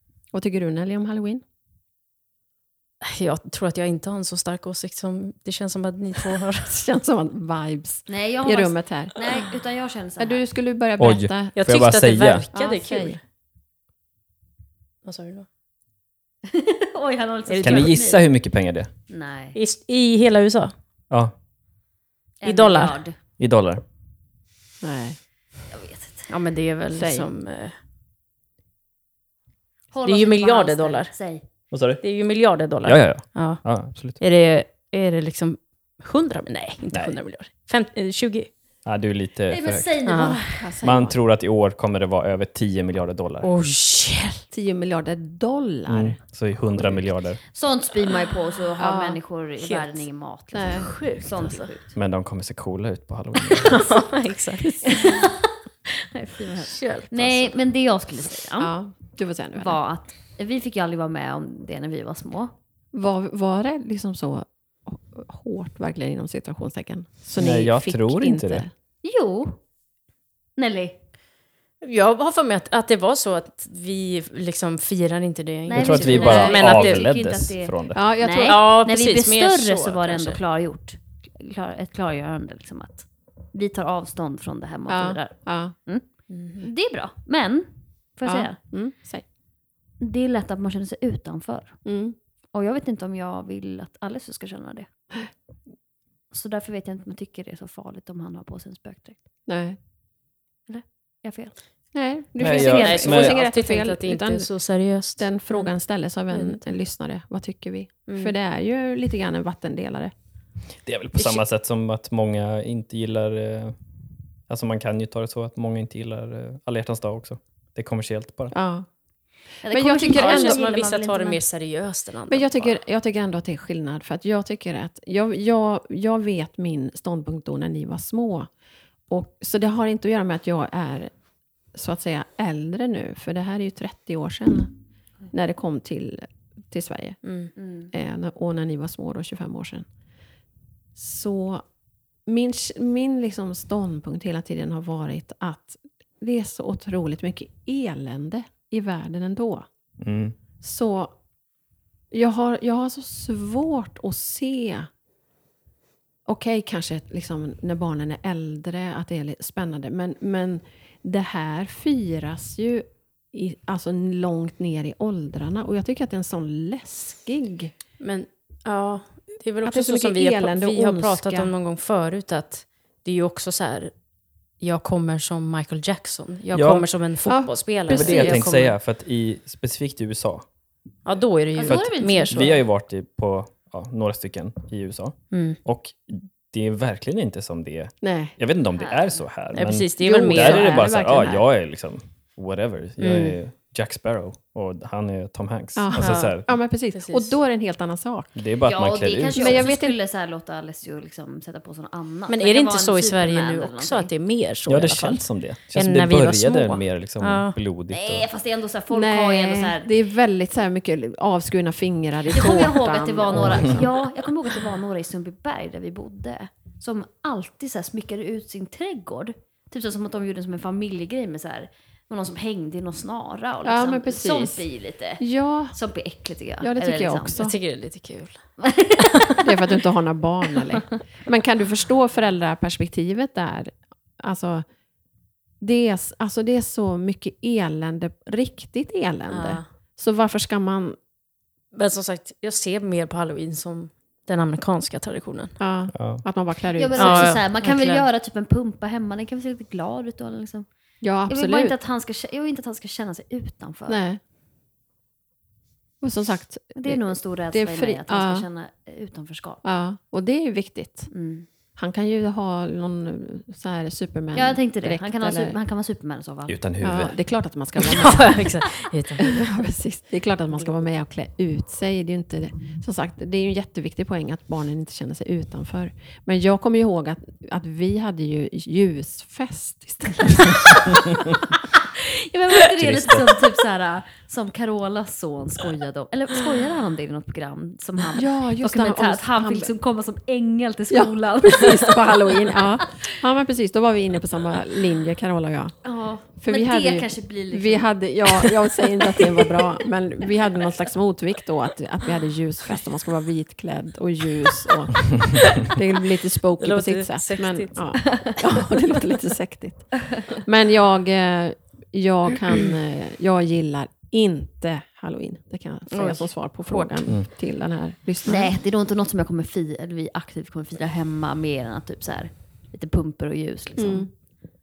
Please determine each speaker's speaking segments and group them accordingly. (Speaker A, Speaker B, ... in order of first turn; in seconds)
Speaker A: 0.3-1.4, 6.7-9.2, 10.2-11.6, 12.5-13.2, 24.8-25.2, 26.9-27.3, 40.2-41.2, 44.5-46.2, 48.8-49.2, 50.5-50.9, 58.6-59.8, 62.9-68.7, 76.3-76.5, 77.9-78.6, 84.9-85.8, 88.3-89.2, 91.8-92.2, 99.5-99.8, 101.9-104.5, 105.2-110.1, 118.5-118.9, 119.6-120.6, 122.3-128.5, 129.1-131.1, 131.7-134.7, 135.3-137.3, 137.9-139.9, 141.0-141.7, 142.3-149.7, 150.6-151.2, 152.1-154.9, 156.3-167.7, 169.6-171.5, 177.2-178.7, 188.0-188.4, 190.0-191.4, 195.8-198.3, 199.3-200.0, 208.9-213.9, 223.7-224.7, 225.2-225.8, 226.6-227.6, 229.4-234.7, 235.6-241.0, 245.6-247.4, 251.0-251.8, 253.9-254.2, 256.0-258.5, 259.6-261.1, 261.8-265.6, 266.8-268.5, 269.2-280.9, 288.1-289.7, 290.9-295.8, 296.4-318.5, 323.8-324.1
Speaker B: 3.0-6.7, 11.6-13.2, 15.0-15.5, 17.5-18.0, 19.6-20.7, 22.4-23.0, 26.3-27.8, 30.1-31.1, 32.0-38.5, 40.0-40.4, 43.4-44.4, 49.6-50.1, 50.7-51.7, 53.6-55.2, 56.6-57.5, 71.8-77.1, 78.3-80.4, 86.3-86.7, 102.6-105.3, 106.3-106.7, 108.1-108.3, 120.1-122.8, 137.2-137.5, 168.0-173.9, 174.6-178.7, 181.1-182.5, 185.3-185.6, 189.5-190.9, 193.0-193.4, 196.0-197.4, 202.3-207.6, 227.4-228.5, 229.0-229.4, 239.3-239.7, 241.7-245.6, 247.0-248.1, 267.8-269.4, 306.6-307.9, 315.9-317.0
Speaker C: 8.1-10.4, 16.5-18.2, 19.1-19.6, 22.4-23.2, 25.7-26.3, 29.9-31.4, 39.5-40.6, 47.5-52.0, 53.7-54.0, 54.9-58.7, 59.5-62.5, 69.0-69.6, 70.6-71.0, 75.7-88.6, 90.0-91.9, 92.5-94.9, 96.3-99.2, 100.7-101.6, 102.5-102.9, 119.6-121.4, 137.6-137.9, 181.6-182.6, 188.8-189.2, 198.7-204.1, 207.9-209.9, 212.3-227.4, 228.6-229.5, 246.8-250.7, 251.3-254.0, 256.8-259.6, 261.1-261.5, 264.4-266.6, 281.8-292.2, 295.8-298.5, 318.2-324.1
Speaker D: 11.0-12.5, 17.6-18.9, 23.4-23.8, 31.7-32.0, 32.8-34.2, 38.9-40.0, 40.8-43.5, 45.9-47.4, 52.0-53.8, 67.4-68.6, 75.7-78.0, 102.4-103.4, 110.8-113.8, 114.5-118.5, 150.0-150.4, 176.5-176.9, 177.9-180.4, 181.7-196.5, 198.4-199.7, 204.7-208.3, 213.3-213.8, 245.9-246.2, 266.5-267.2, 282.7-283.3